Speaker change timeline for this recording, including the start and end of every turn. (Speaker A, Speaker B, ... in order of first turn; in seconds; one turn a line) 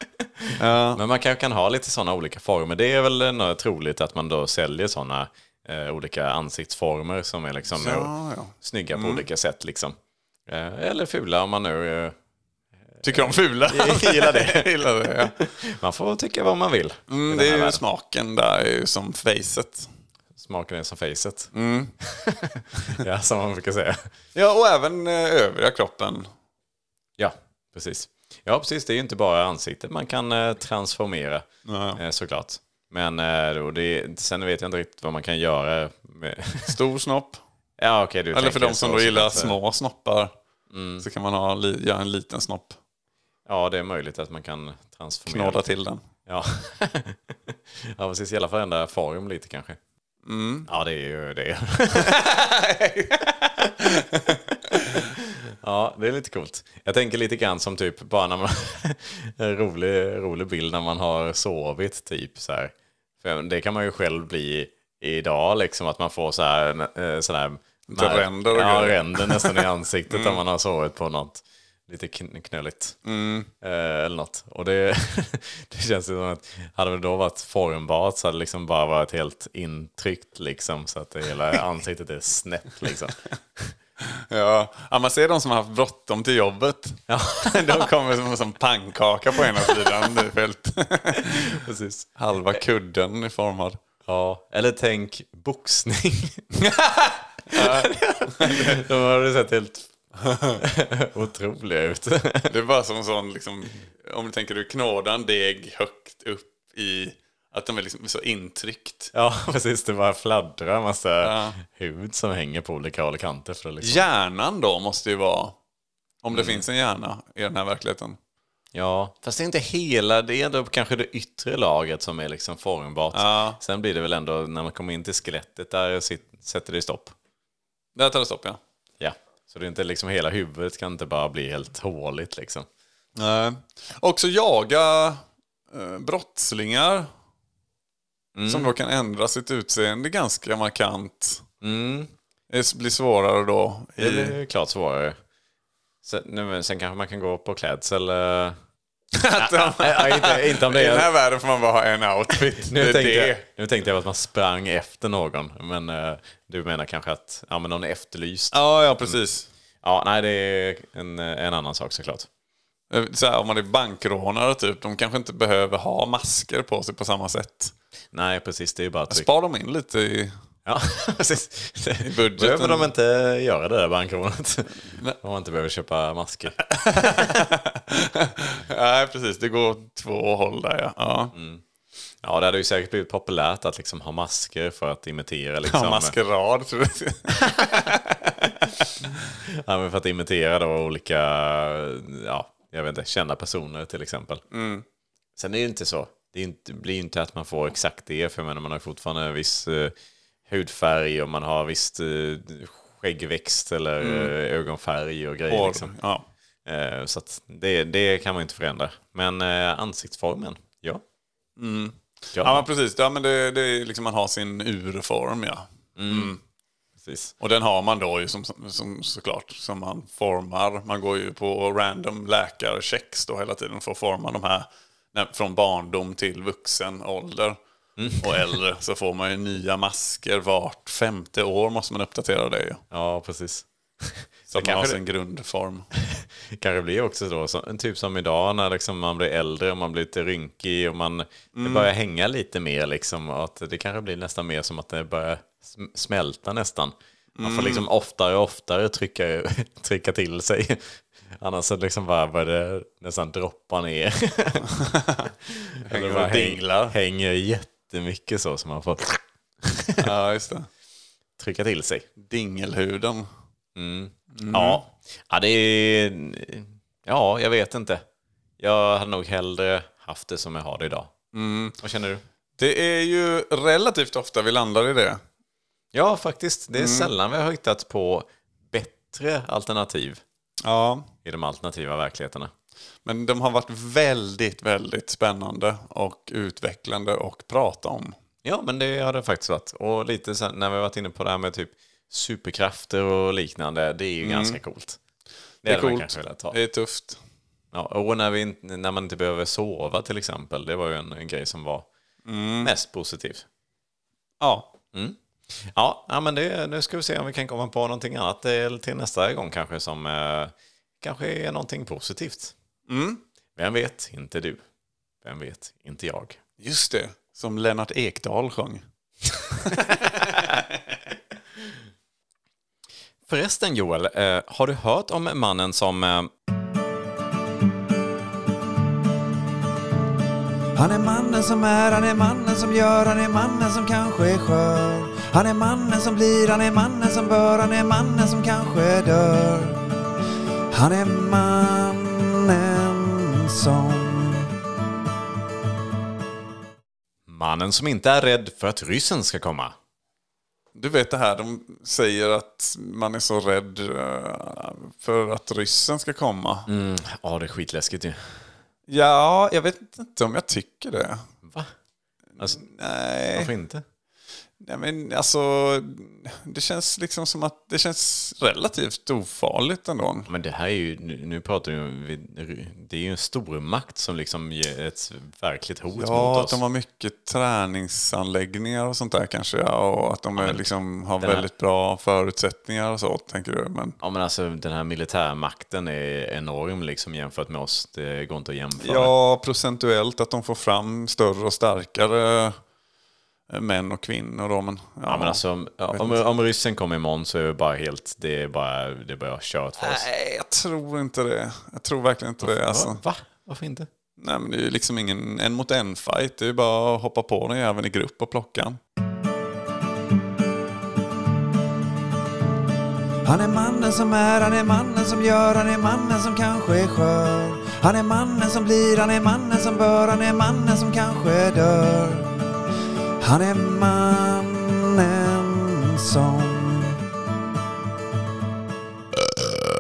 Speaker A: 0.2-12.2
Speaker B: 0.6-1.0
Speaker B: 7.7-9.3
Speaker A: 13.0-17.8
Speaker B: 13.0-15.4
Speaker B: 17.1-19.9
Speaker A: 20.4-24.1
Speaker B: 21.5-21.9
Speaker B: 24.4-26.3
Speaker A: 27.2-36.8
Speaker B: 31.6-32.0
Speaker B: 36.7-37.4
Speaker A: 37.8-39.6
Speaker B: 38.3-40.3
Speaker A: 40.7-41.1
Speaker B: 41.0-42.8
Speaker A: 43.5-45.6
Speaker B: 45.3-46.0
Speaker A: 46.3-49.8
Speaker B: 50.2-50.7
Speaker A: 50.7-52.2
Speaker B: 52.0-55.0
Speaker A: 55.6-73.0
Speaker B: 67.9-70.4
Speaker B: 73.0-73.5
Speaker A: 73.6-83.8
Speaker B: 84.0-91.6
Speaker A: 87.1-87.9
Speaker A: 91.2-92.1
Speaker B: 92.2-93.8
Speaker A: 94.1-96.5
Speaker B: 96.6-98.8
Speaker A: 97.5-99.9
Speaker B: 100.2-100.6
Speaker A: 100.6-102.5
Speaker B: 102.5-109.1
Speaker A: 109.1-114.0
Speaker B: 111.2-111.6
Speaker B: 113.8-115.6
Speaker B: 116.2-118.2
Speaker A: 116.3-116.6
Speaker A: 118.7-127.2
Speaker B: 123.1-123.6
Speaker B: 128.0-128.6
Speaker A: 129.0-132.7
Speaker B: 133.2-137.1
Speaker A: 138.3-138.7
Speaker B: 138.5-141.4
Speaker A: 141.6-142.1
Speaker B: 142.5-144.4
Speaker A: 144.0-145.2
Speaker A: 146.0-148.6
Speaker B: 149.1-153.4
Speaker A: 149.4-151.1
Speaker A: 152.4-159.2
Speaker B: 158.5-159.5
Speaker A: 159.8-162.3
Speaker B: 162.9-167.7
Speaker A: 168.1-169.3
Speaker B: 169.1-170.3
Speaker A: 170.7-176.6
Speaker B: 172.0-172.9
Speaker B: 176.7-181.3
Speaker A: 181.3-181.6
Speaker A: 182.2-186.1
Speaker B: 185.7-189.1
Speaker A: 189.4-194.4
Speaker B: 194.5-194.8
Speaker A: 195.4-199.9
Speaker A: 200.5-205.9
Speaker B: 204.0-204.3
Speaker B: 205.5-206.2
Speaker A: 206.7-211.0
Speaker B: 211.6-216.4
Speaker A: 212.3-212.7
Speaker A: 216.0-216.4
Speaker A: 217.0-217.3
Speaker B: 217.4-227.6
Speaker A: 228.0-228.5
Speaker B: 228.2-232.8
Speaker A: 232.9-235.0
Speaker B: 234.5-235.9
Speaker A: 236.0-254.7
Speaker B: 241.5-241.9
Speaker B: 247.4-247.9
Speaker B: 254.8-255.2
Speaker A: 255.4-260.1
Speaker B: 255.9-257.0
Speaker B: 260.0-260.7
Speaker A: 261.4-262.1
Speaker B: 262.2-263.3
Speaker A: 263.8-268.0
Speaker B: 264.4-264.8
Speaker A: 268.6-271.1
Speaker B: 271.3-271.8
Speaker A: 271.8-272.2
Speaker B: 272.6-275.2
Speaker A: 275.9-280.2
Speaker B: 276.8-277.1
Speaker B: 280.6-281.1
Speaker A: 281.2-282.5
Speaker B: 283.1-288.2
Speaker A: 288.4-295.0
Speaker B: 294.2-294.6
Speaker A: 295.6-296.6
Speaker B: 295.6-297.2
Speaker A: 297.7-301.9
Speaker B: 302.2-302.7
Speaker A: 302.6-303.5
Speaker B: 304.4-304.7
Speaker A: 304.9-312.5
Speaker B: 312.9-313.2
Speaker A: 313.6-314.6
Speaker A: 315.2-316.4
Speaker B: 316.6-318.8
Speaker B: 319.6-320.6
Speaker A: 323.3-326.3
Speaker C: 330.8-339.8
Speaker C: 340.7-344.5
Speaker A: 347.3-349.8
Speaker B: 350.8-356.7
Speaker A: 356.7-358.5
Speaker B: 358.9-361.2
Speaker A: 361.4-361.7
Speaker B: 362.4-363.5
Speaker A: 362.4-362.6
Speaker A: 363.3-363.8
Speaker B: 364.6-370.3
Speaker A: 370.3-376.6
Speaker B: 376.0-384.0
Speaker A: 380.4-380.6
Speaker A: 381.2-381.5
Speaker A: 384.0-389.1
Speaker B: 388.8-392.6
Speaker B: 393.5-396.2
Speaker A: 395.1-400.1
Speaker B: 399.8-403.0
Speaker A: 402.4-403.9
Speaker B: 404.2-408.8
Speaker C: 413.2-422.3
Speaker C: 423.2-427.0